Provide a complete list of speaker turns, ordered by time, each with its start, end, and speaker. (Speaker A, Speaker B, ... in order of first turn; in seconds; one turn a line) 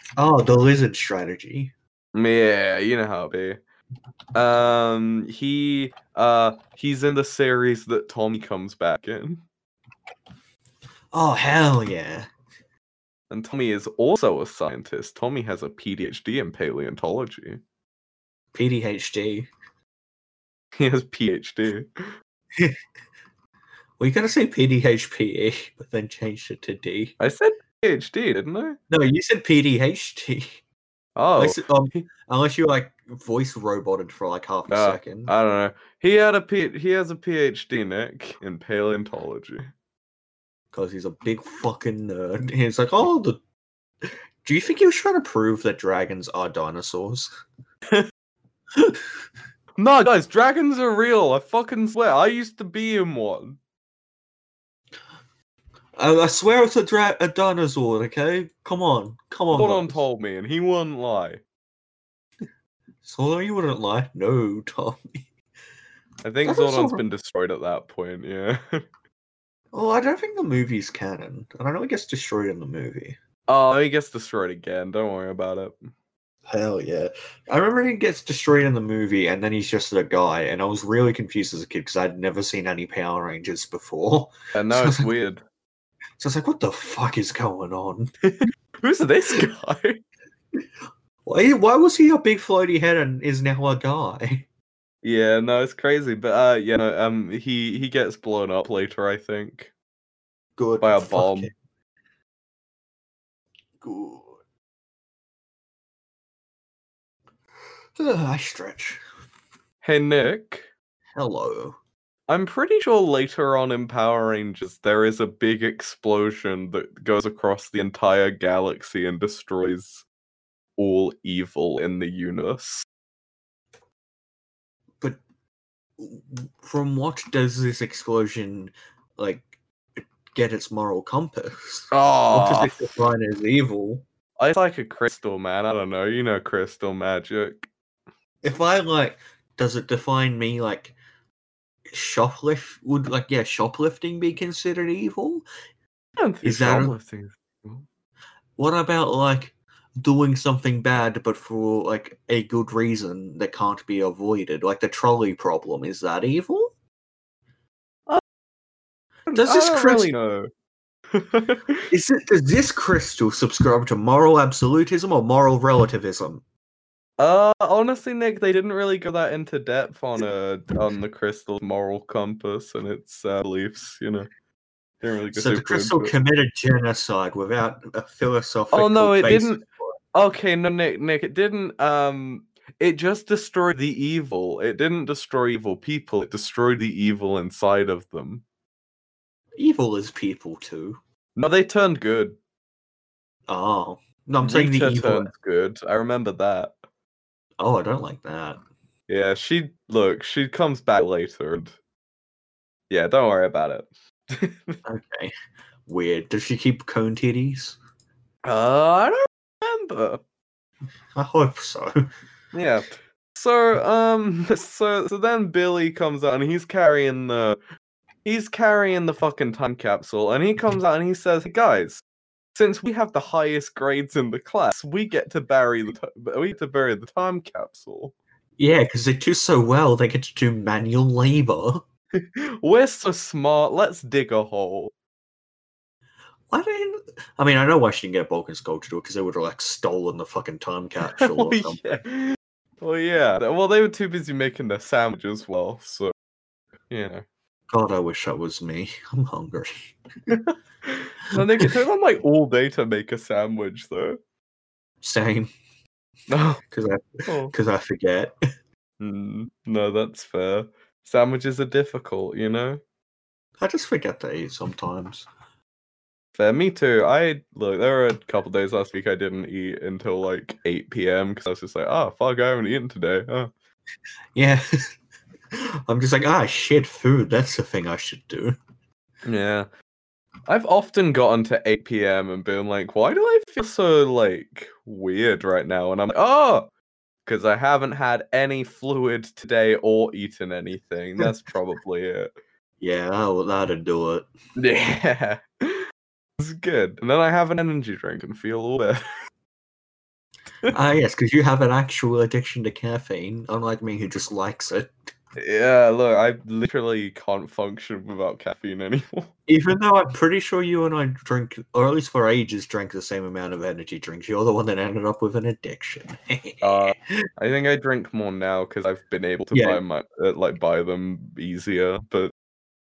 Speaker A: 0.2-1.7
Speaker B: 2.1-3.6
Speaker B: 4.3-9.4
Speaker A: 11.1-12.3
Speaker B: 13.3-17.6
Speaker A: 18.5-19.5
Speaker B: 20.8-22.1
Speaker A: 24.0-27.1
Speaker B: 27.2-28.8
Speaker A: 28.9-30.6
Speaker B: 31.1-32.1
Speaker A: 31.4-35.3
Speaker B: 34.7-39.7
Speaker A: 40.7-43.4
Speaker A: 44.0-47.3
Speaker A: 48.7-49.0
Speaker B: 49.8-53.6
Speaker A: 56.0-60.0
Speaker B: 59.5-61.4
Speaker A: 63.0-65.3
Speaker B: 66.2-68.8
Speaker A: 66.4-67.0
Speaker A: 69.7-73.2
Speaker B: 73.5-75.9
Speaker A: 76.5-85.1
Speaker B: 84.5-85.4
Speaker A: 86.2-88.1
Speaker B: 88.2-90.0
Speaker A: 91.2-94.5
Speaker B: 95.0-99.7
Speaker A: 100.6-101.5
Speaker B: 100.8-101.5
Speaker A: 103.8-104.4
Speaker A: 108.0-109.0
Speaker B: 109.8-110.7
Speaker A: 111.1-111.8
Speaker B: 112.3-120.0
Speaker B: 120.8-122.8
Speaker A: 126.0-134.0
Speaker B: 131.9-132.9
Speaker B: 134.4-137.7
Speaker A: 138.4-140.9
Speaker A: 141.9-145.4
Speaker B: 146.2-147.8
Speaker A: 146.4-146.9
Speaker A: 148.6-156.7
Speaker B: 159.3-160.5
Speaker A: 159.3-160.1
Speaker B: 161.1-161.9
Speaker A: 161.9-166.4
Speaker B: 167.2-174.3
Speaker B: 175.0-176.1
Speaker A: 175.3-179.9
Speaker B: 178.7-188.4
Speaker A: 189.6-191.0
Speaker B: 191.3-192.4
Speaker A: 193.5-195.3
Speaker B: 194.4-196.7
Speaker A: 197.6-198.6
Speaker B: 199.1-201.8
Speaker B: 202.9-204.8
Speaker A: 204.8-205.3
Speaker A: 205.9-207.8
Speaker B: 208.4-210.2
Speaker A: 211.1-212.1
Speaker B: 212.5-217.6
Speaker B: 218.2-222.0
Speaker B: 222.5-228.1
Speaker A: 228.6-231.8
Speaker B: 232.2-234.9
Speaker A: 236.5-242.0
Speaker B: 241.1-246.1
Speaker B: 246.9-247.2
Speaker A: 247.7-250.3
Speaker B: 250.3-254.2
Speaker A: 251.4-251.8
Speaker A: 255.0-255.5
Speaker B: 256.3-256.6
Speaker A: 256.7-258.3
Speaker B: 257.3-257.5
Speaker B: 259.0-262.8
Speaker A: 263.6-265.3
Speaker B: 266.3-273.5
Speaker A: 274.3-274.9
Speaker A: 275.5-278.6
Speaker B: 279.2-279.7
Speaker B: 280.5-286.7
Speaker B: 287.2-292.3
Speaker A: 292.8-294.3
Speaker B: 294.6-295.8
Speaker B: 296.4-299.0
Speaker A: 300.7-304.9
Speaker B: 305.4-309.3
Speaker A: 309.5-317.1
Speaker B: 316.6-322.3
Speaker A: 319.5-319.8